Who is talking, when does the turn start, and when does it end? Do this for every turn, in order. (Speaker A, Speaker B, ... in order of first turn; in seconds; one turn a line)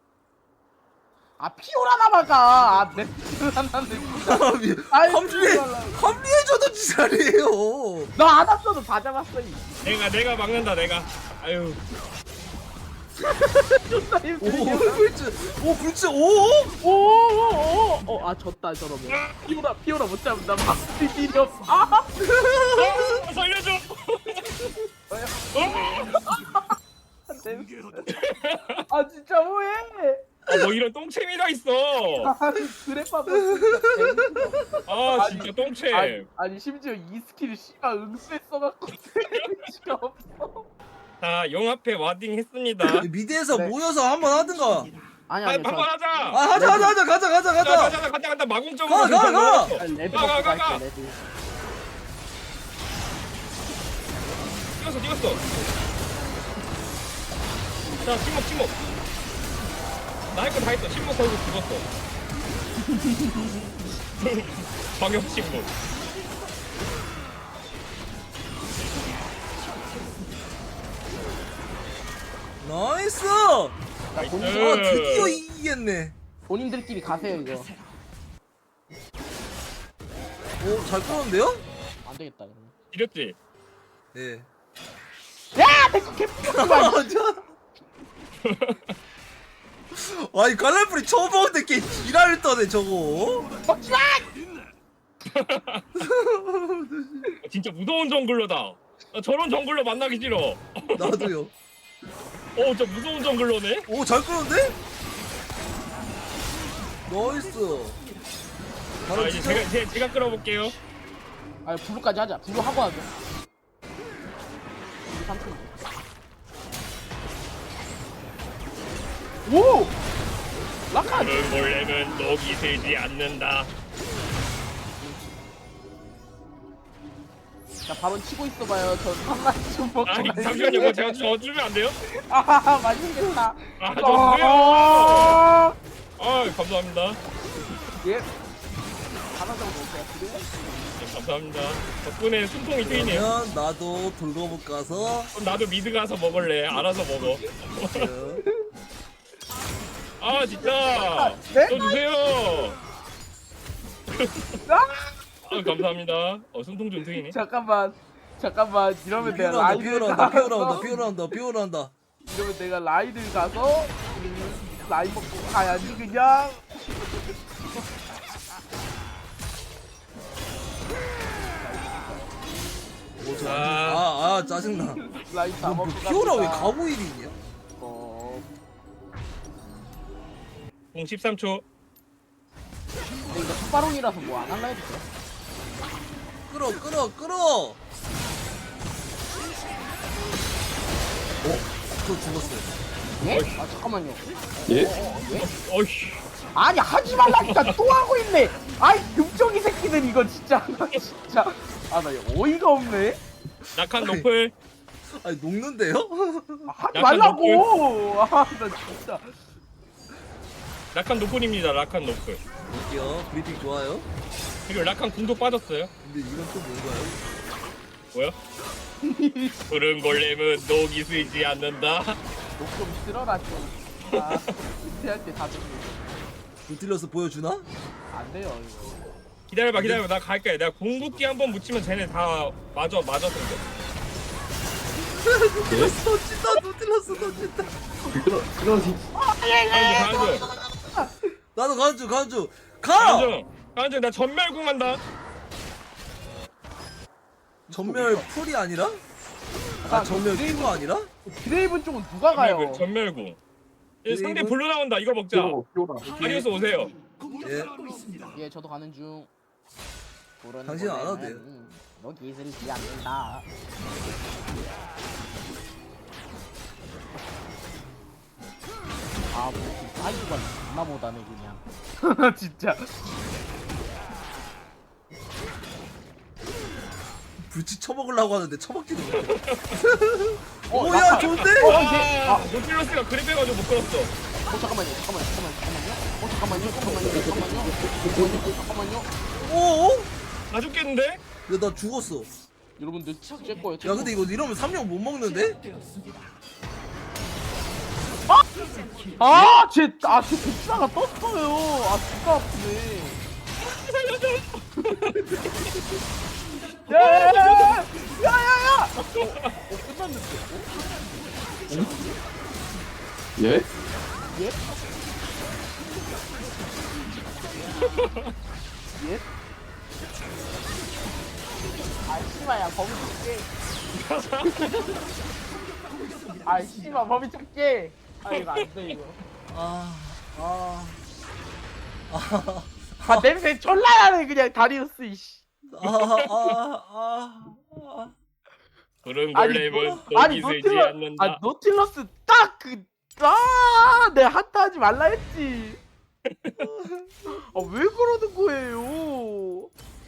Speaker A: 1.4-6.1
Speaker B: 4.2-8.1
Speaker A: 8.2-9.7
Speaker C: 9.8-11.8
Speaker A: 13.2-15.1
Speaker B: 14.4-16.7
Speaker A: 16.8-22.1
Speaker B: 22.2-23.2
Speaker C: 22.8-24.5
Speaker A: 25.1-26.7
Speaker C: 25.5-26.2
Speaker A: 27.3-28.1
Speaker C: 28.1-28.8
Speaker A: 28.9-30.3
Speaker C: 30.5-32.3
Speaker A: 32.2-40.6
Speaker B: 33.3-34.4
Speaker C: 34.9-36.2
Speaker C: 41.2-43.1
Speaker B: 43.0-44.9
Speaker A: 45.3-45.9
Speaker C: 45.4-46.4
Speaker B: 46.3-48.0
Speaker A: 46.5-47.0
Speaker C: 47.6-50.8
Speaker B: 48.9-49.8
Speaker A: 49.7-51.2
Speaker C: 54.8-55.4
Speaker C: 57.9-58.8
Speaker C: 60.3-61.8
Speaker A: 62.9-63.5
Speaker C: 64.2-65.7
Speaker B: 72.6-76.1
Speaker A: 74.1-75.0
Speaker C: 74.2-75.4
Speaker A: 76.5-77.7
Speaker B: 80.6-81.6
Speaker A: 82.0-82.7
Speaker C: 82.9-83.3
Speaker B: 84.1-84.5
Speaker A: 85.5-87.1
Speaker B: 86.4-87.5
Speaker C: 88.4-88.9
Speaker B: 89.9-93.5
Speaker A: 93.6-94.3
Speaker C: 95.3-95.8
Speaker B: 96.0-97.3
Speaker C: 97.4-101.3
Speaker B: 100.9-101.5
Speaker C: 102.5-103.9
Speaker B: 103.9-104.8
Speaker B: 107.1-108.0
Speaker B: 109.0-109.7
Speaker C: 109.1-110.8
Speaker A: 111.6-113.1
Speaker A: 115.0-115.8
Speaker A: 119.4-120.0
Speaker A: 120.9-121.8
Speaker C: 121.0-123.7
Speaker A: 125.0-125.3
Speaker A: 127.8-131.2
Speaker C: 130.1-132.0
Speaker A: 132.2-135.7
Speaker C: 133.8-135.4
Speaker C: 136.2-137.2
Speaker A: 138.0-138.3
Speaker A: 139.3-140.5
Speaker C: 141.0-143.3
Speaker B: 142.8-145.3
Speaker C: 145.3-148.1
Speaker B: 147.9-148.4
Speaker C: 150.2-152.8
Speaker A: 150.9-152.0
Speaker C: 154.1-154.5
Speaker A: 154.7-155.8
Speaker C: 155.5-157.3
Speaker A: 157.1-161.3
Speaker B: 159.2-161.9
Speaker A: 162.2-166.8
Speaker A: 171.5-172.3
Speaker B: 173.2-177.3
Speaker C: 173.4-174.1
Speaker A: 175.1-176.7
Speaker A: 177.8-178.5
Speaker C: 180.9-181.6
Speaker A: 183.3-185.1
Speaker B: 186.5-187.8
Speaker B: 191.4-192.7
Speaker A: 193.2-195.5
Speaker C: 193.3-193.6
Speaker D: 194.7-194.9
Speaker C: 195.4-196.2
Speaker A: 196.5-203.2
Speaker C: 197.2-197.8
Speaker C: 203.7-204.5
Speaker B: 204.0-204.2
Speaker B: 205.1-206.7
Speaker A: 206.7-209.3
Speaker C: 206.9-207.7
Speaker C: 210.9-212.4
Speaker B: 212.7-214.1
Speaker C: 214.7-215.9
Speaker B: 216.0-217.2
Speaker A: 219.0-219.6
Speaker C: 219.7-222.2
Speaker A: 222.6-226.2
Speaker C: 224.1-224.4
Speaker B: 226.7-227.7
Speaker A: 228.1-229.0
Speaker C: 229.5-233.6
Speaker B: 229.7-230.0
Speaker B: 235.2-237.7
Speaker D: 235.7-235.9
Speaker D: 238.1-239.0
Speaker A: 239.1-241.3
Speaker C: 239.7-240.4
Speaker B: 241.5-243.3
Speaker C: 243.0-245.0
Speaker A: 247.7-248.3
Speaker B: 247.7-249.0
Speaker B: 249.8-251.1
Speaker A: 249.9-252.8
Speaker C: 252.3-253.4
Speaker C: 254.0-256.9
Speaker B: 254.1-254.6
Speaker D: 255.3-256.5
Speaker B: 257.4-257.7
Speaker A: 258.3-259.3
Speaker A: 260.4-263.5
Speaker B: 260.6-261.4
Speaker A: 269.3-273.0
Speaker B: 277.4-281.8
Speaker C: 279.3-279.8
Speaker A: 280.7-282.5
Speaker C: 281.1-284.1
Speaker A: 284.5-289.1
Speaker D: 287.0-288.3
Speaker B: 289.4-290.1
Speaker C: 290.5-291.2
Speaker B: 291.5-292.3
Speaker A: 292.8-294.2
Speaker B: 293.8-295.6
Speaker A: 299.2-303.2
Speaker C: 303.7-305.1
Speaker A: 304.9-305.5
Speaker A: 306.9-310.7
Speaker C: 306.9-307.8
Speaker D: 313.4-313.6
Speaker A: 314.3-314.6
Speaker C: 317.9-318.3
Speaker A: 318.9-319.3
Speaker A: 322.0-323.5
Speaker C: 324.0-324.8
Speaker A: 324.4-324.9
Speaker A: 326.4-329.2
Speaker B: 329.5-331.0
Speaker B: 332.1-333.3
Speaker A: 333.0-335.4
Speaker B: 335.7-338.1
Speaker C: 335.8-336.6
Speaker C: 339.0-341.4
Speaker A: 339.3-345.8
Speaker B: 339.7-340.1
Speaker C: 346.3-346.6
Speaker B: 346.5-347.1
Speaker A: 347.3-349.7